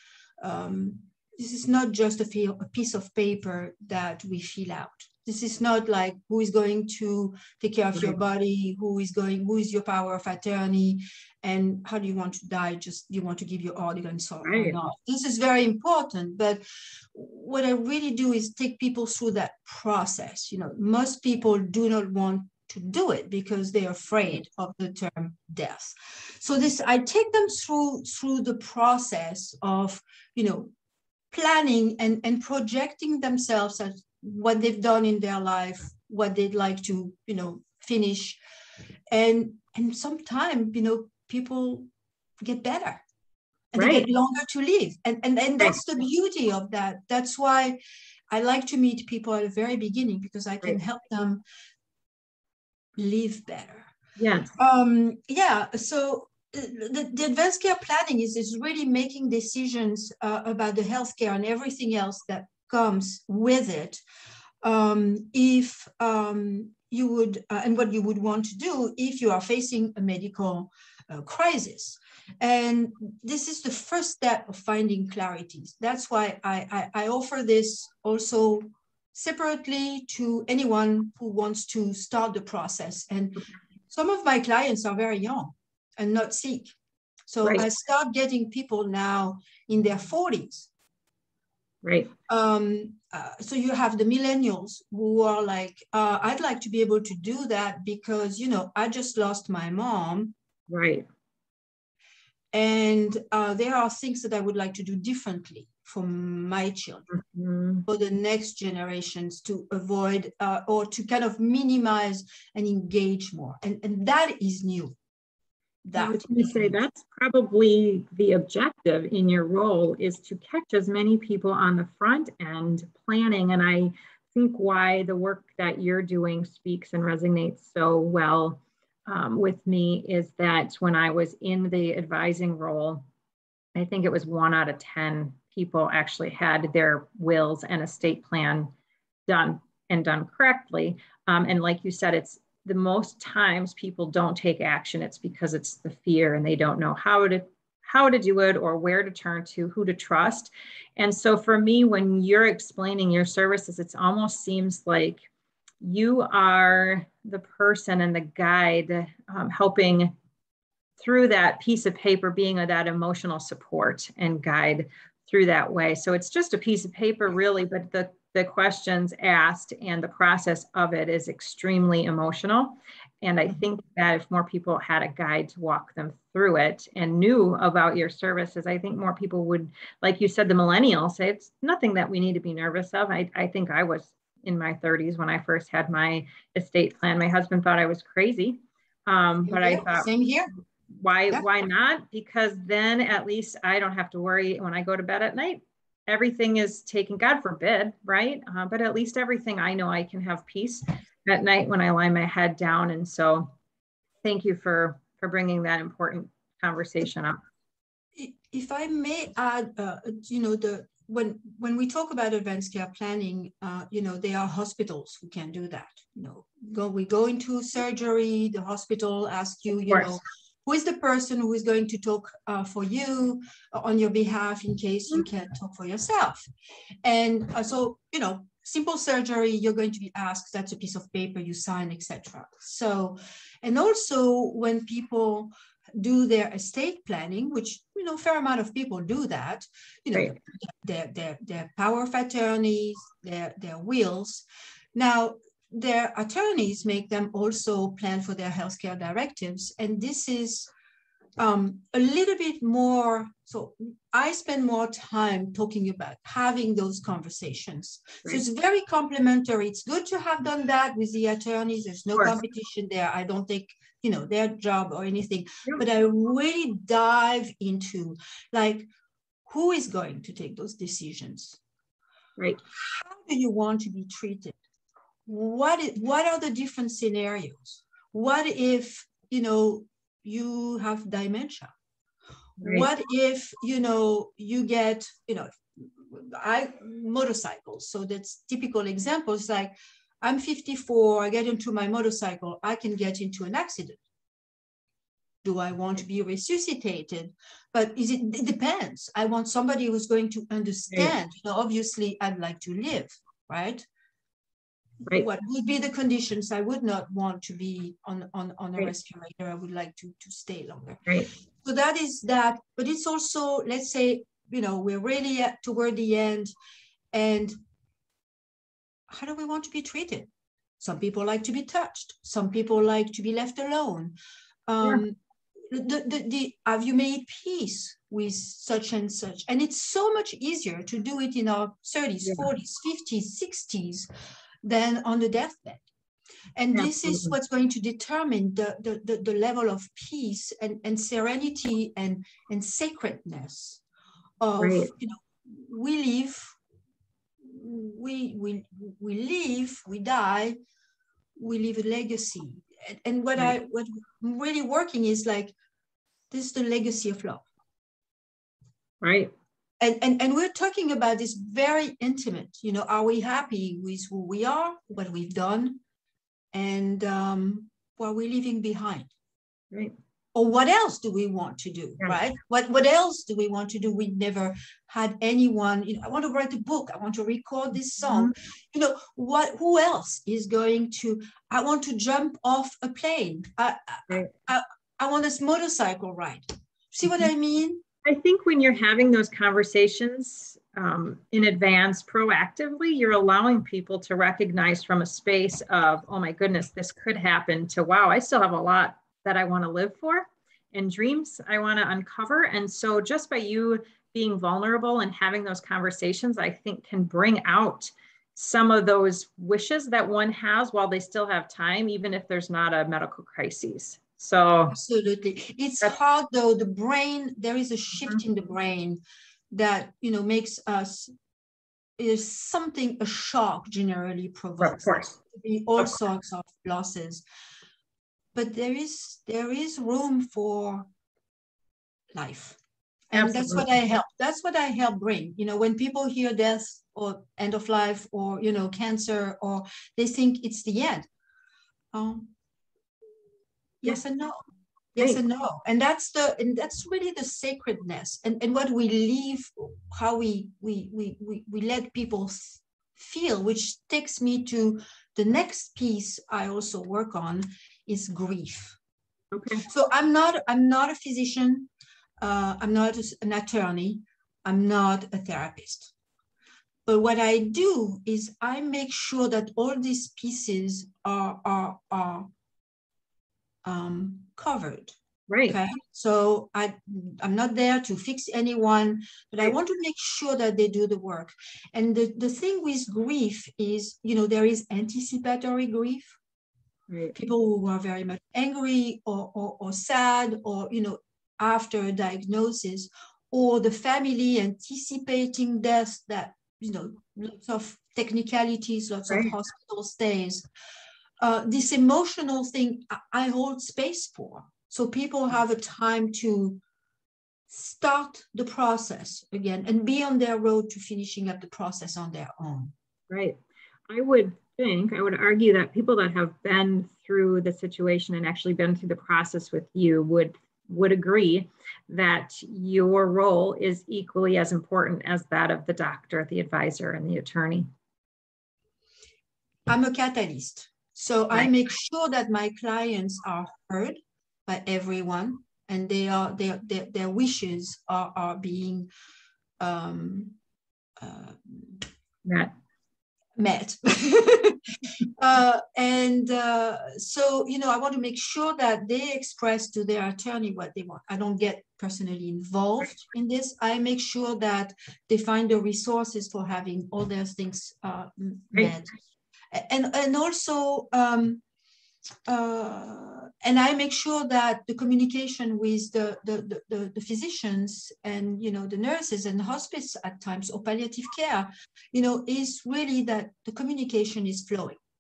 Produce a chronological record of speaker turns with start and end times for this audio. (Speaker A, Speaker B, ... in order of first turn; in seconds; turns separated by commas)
Speaker A: 0.4-30.7, Speaker B: 14.4-14.8, Speaker A: 31.3-38.4, Speaker A: 39.1-41.9, Speaker A: 42.4-43.0, Speaker A: 43.7-47.8, Speaker B: 43.8-44.1, Speaker A: 48.3-51.4, Speaker A: 53.0-53.9, Speaker B: 54.2-54.5, Speaker A: 54.5-64.0, Speaker A: 64.6-86.7, Speaker A: 87.3-90.7, Speaker B: 91.8-92.1, Speaker A: 92.3-100.3, Speaker B: 100.7-101.0, Speaker A: 102.5-107.1, Speaker B: 107.1-107.8, Speaker A: 107.9-115.0, Speaker A: 115.8-116.8, Speaker B: 116.0-133.0, Speaker B: 133.8-138.7, Speaker B: 139.3-155.2, Speaker B: 155.8-160.1, Speaker B: 161.0-190.1, Speaker A: 189.4-190.5, Speaker B: 190.9-203.5, Speaker B: 204.2-207.4, Speaker A: 208.1-226.5, Speaker B: 219.9-220.2, Speaker A: 227.0-250.7, Speaker A: 251.4-268.9, Speaker A: 269.5-271.6, Speaker A: 272.7-274.6, Speaker A: 275.2-281.7, Speaker B: 282.6-282.9, Speaker A: 282.6-294.0, Speaker A: 295.4-303.9, Speaker A: 305.1-311.1, Speaker A: 311.6-316.5, Speaker A: 317.1-317.6, Speaker A: 319.1-320.3, Speaker A: 320.8-324.1, Speaker A: 324.7-334.1, Speaker B: 332.2-332.5, Speaker A: 334.6-335.9, Speaker A: 336.6-343.8, Speaker B: 336.7-337.4, Speaker A: 344.4-346.6, Speaker B: 344.6-344.9, Speaker A: 347.4-350.6, Speaker A: 351.4-355.5, Speaker A: 356.3-357.4, Speaker B: 359.0-359.3, Speaker A: 359.8-365.8, Speaker A: 366.5-369.1, Speaker A: 370.3-387.8, Speaker B: 378.0-378.3, Speaker B: 388.0-414.8, Speaker A: 414.7-421.1, Speaker A: 422.0-427.2, Speaker B: 424.6-425.1, Speaker A: 428.3-430.9, Speaker A: 432.1-432.6, Speaker A: 433.1-441.1, Speaker B: 433.1-433.7, Speaker A: 441.9-442.3, Speaker A: 443.8-444.4, Speaker A: 444.9-458.8, Speaker B: 459.3-459.7, Speaker A: 459.6-461.7, Speaker A: 462.2-465.9, Speaker A: 466.9-472.3, Speaker A: 473.6-474.9, Speaker B: 475.3-475.6, Speaker A: 475.5-486.2, Speaker B: 486.9-487.1, Speaker A: 487.1-500.5, Speaker A: 501.2-506.6, Speaker A: 507.5-512.7, Speaker B: 513.1-513.4, Speaker B: 513.9-527.7, Speaker A: 529.7-538.9, Speaker A: 539.6-540.4, Speaker A: 541.0-541.9, Speaker B: 542.2-542.5, Speaker A: 543.4-544.6, Speaker A: 545.2-558.9, Speaker A: 559.5-561.4, Speaker A: 562.3-574.8